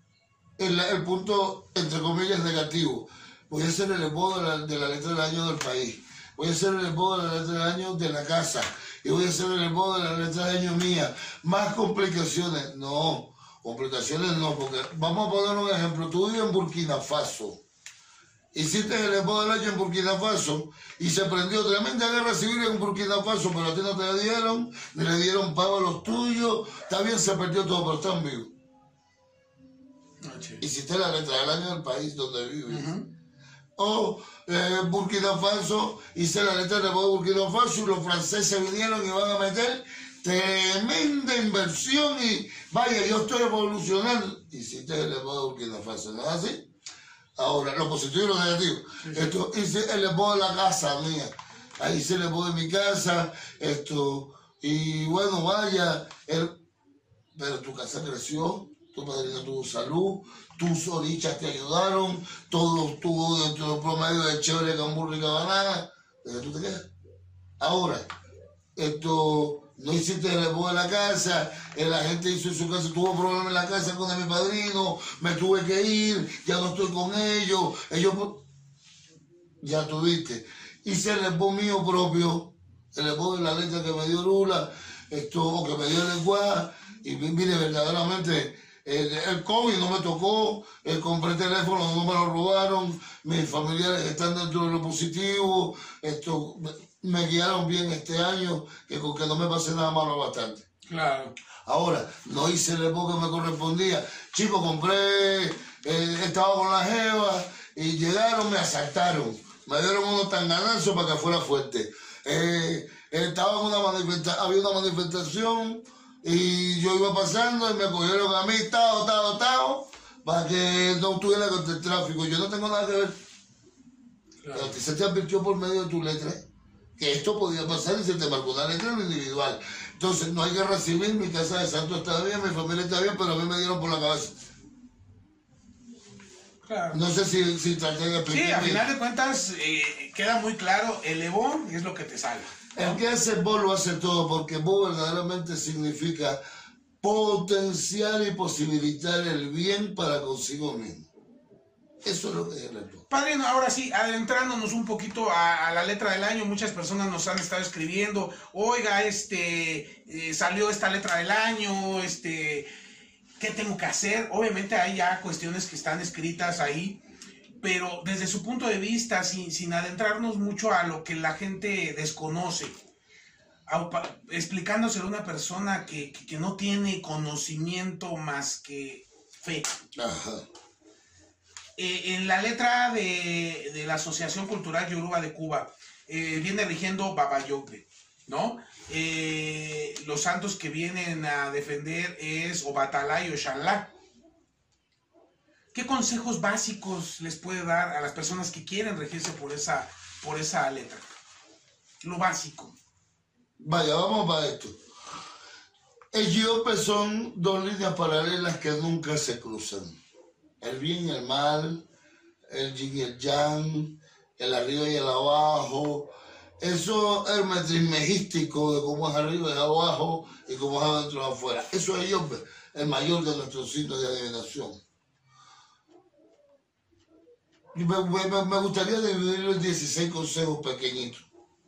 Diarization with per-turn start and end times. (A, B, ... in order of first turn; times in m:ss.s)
0:00.6-0:17.6 A
0:18.5-0:28.5 A
0:30.2-0:30.6 B
0:30.6-0:33.0 A
0:32.7-0:33.1 B
0:33.8-0:46.7 A
0:47.4-0:56.5 A
0:49.0-0:49.4 B
0:57.3-1:06.9 A
1:07.6-1:08.0 A
1:08.8-1:18.4 A
1:19.6-1:40.6 A
1:40.9-1:41.3 B
1:41.7-2:03.2 A
2:04.4-2:04.8 B
2:04.5-2:06.4 A
2:07.0-2:14.4 A
2:16.6-2:17.0 B
2:16.9-2:18.8 A
2:18.3-2:23.0 B
2:22.8-2:26.4 A
2:27.0-2:31.1 A
2:32.0-2:33.0 A
2:33.1-2:42.7 B
2:43.4-2:47.0 B
2:47.6-2:52.8 B
2:53.7-2:59.7 B
3:00.0-3:00.4 A
3:01.8-3:13.9 B
3:15.7-3:21.1 B
3:22.0-3:22.7 B
3:23.6-3:24.8 A
3:26.1-3:30.0 A
3:30.6-3:31.8 A
3:32.5-3:44.8 A
3:47.7-3:51.2 A